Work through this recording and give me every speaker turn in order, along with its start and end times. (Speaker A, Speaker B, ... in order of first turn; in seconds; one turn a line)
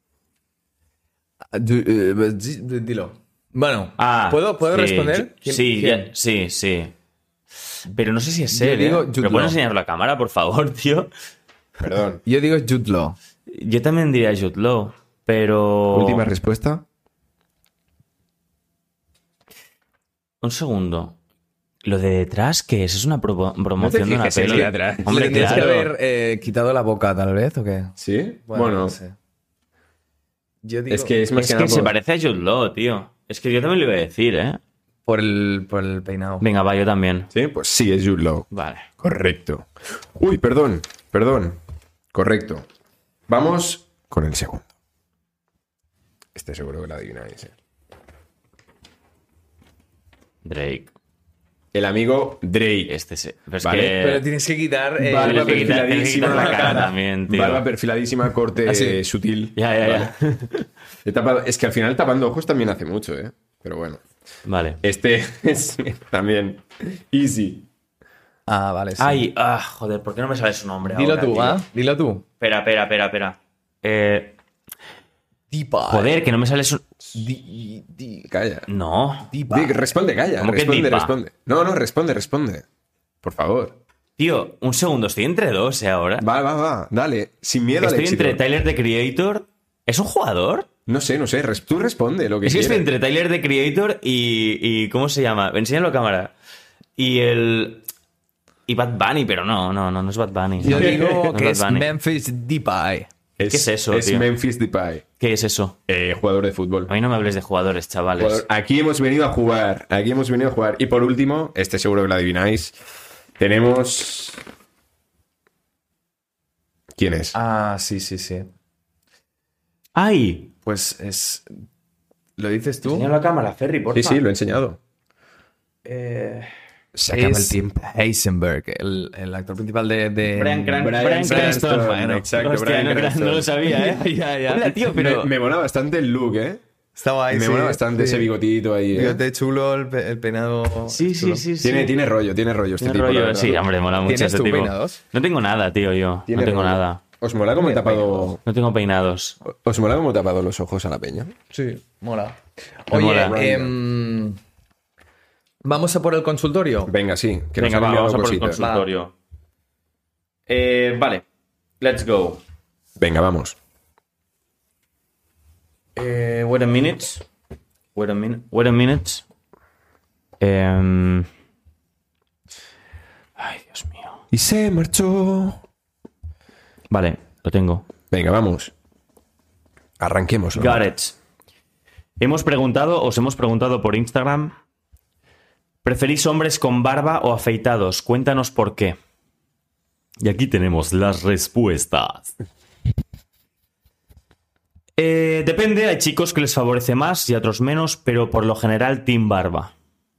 Speaker A: 1.5-6.1
Speaker B: 4.0-6.9
Speaker B: 7.9-11.1
Speaker A: 8.5-9.6
Speaker C: 11.8-12.2
Speaker A: 12.2-13.2
Speaker B: 13.5-16.3
Speaker C: 15.9-16.8
Speaker B: 20.4-21.2
Speaker B: 21.8-25.9
Speaker C: 23.8-25.7
Speaker A: 24.4-27.9
Speaker C: 28.0-29.0
Speaker A: 28.5-29.1
Speaker A: 30.6-31.2
Speaker C: 30.9-31.9
Speaker B: 31.4-34.6
Speaker A: 35.0-36.5
Speaker B: 36.4-37.3
Speaker C: 37.3-38.5
Speaker B: 38.5-38.9
Speaker C: 39.0-41.6
Speaker C: 42.1-42.7
Speaker C: 43.3-44.7
Speaker C: 46.3-47.5
Speaker B: 50.4-50.9
Speaker C: 51.7-52.9
Speaker B: 52.9-54.3
Speaker C: 53.6-54.0
Speaker A: 54.0-56.9
Speaker C: 55.0-60.1
Speaker B: 55.1-57.6
Speaker A: 58.6-59.0
Speaker B: 59.5-60.7
Speaker C: 61.0-64.0
Speaker B: 64.5-64.8
Speaker C: 64.8-67.7
Speaker A: 68.5-69.2
Speaker B: 69.0-71.6
Speaker A: 70.9-72.2
Speaker B: 72.4-74.4
Speaker A: 75.5-76.1
Speaker B: 75.9-76.8
Speaker A: 77.1-78.3
Speaker C: 78.3-78.7
Speaker B: 78.7-79.3
Speaker A: 79.3-80.0
Speaker C: 79.5-82.7
Speaker B: 80.4-81.2
Speaker C: 83.2-83.8
Speaker B: 84.2-86.3
Speaker C: 86.2-88.4
Speaker B: 87.8-90.7
Speaker C: 90.9-92.9
Speaker B: 92.4-96.3
Speaker B: 97.0-97.9
Speaker B: 98.7-101.9
Speaker A: 100.6-103.1
Speaker C: 100.6-101.0
Speaker C: 103.4-105.0
Speaker B: 103.5-104.3
Speaker B: 105.2-105.8
Speaker C: 105.9-106.9
Speaker B: 106.9-108.5
Speaker C: 108.2-112.8
Speaker C: 113.4-114.4
Speaker C: 117.0-117.3
Speaker A: 117.3-118.5
Speaker B: 120.0-120.5
Speaker A: 120.6-121.5
Speaker A: 122.4-123.1
Speaker B: 122.8-124.2
Speaker C: 123.9-124.8
Speaker A: 125.9-126.5
Speaker C: 127.0-127.9
Speaker A: 127.1-132.3
Speaker B: 130.3-135.3
Speaker C: 130.8-133.6
Speaker A: 133.6-134.9
Speaker C: 134.9-136.6
Speaker A: 136.9-138.3
Speaker C: 137.3-139.2
Speaker A: 138.9-141.4
Speaker B: 140.9-141.9
Speaker C: 141.6-143.8
Speaker B: 142.8-147.0
Speaker A: 144.0-145.0
Speaker C: 146.3-148.4
Speaker A: 147.6-148.3
Speaker B: 148.4-149.4
Speaker C: 149.4-151.3
Speaker A: 151.5-154.4
Speaker B: 152.9-153.3
Speaker C: 153.2-153.8
Speaker A: 155.6-156.9
Speaker C: 156.9-158.6
Speaker B: 157.6-159.1
Speaker A: 158.6-158.9
Speaker B: 160.5-161.2
Speaker B: 161.8-162.4
Speaker C: 163.0-163.6
Speaker B: 165.9-167.2
Speaker B: 167.9-169.2
Speaker B: 170.4-171.3
Speaker B: 173.4-174.2
Speaker C: 174.3-175.6
Speaker B: 176.9-177.9
Speaker C: 178.1-178.7
Speaker C: 180.0-180.8
Speaker B: 180.6-181.2
Speaker B: 182.2-184.6
Speaker B: 185.8-189.0
Speaker B: 190.2-192.3
Speaker B: 195.0-199.7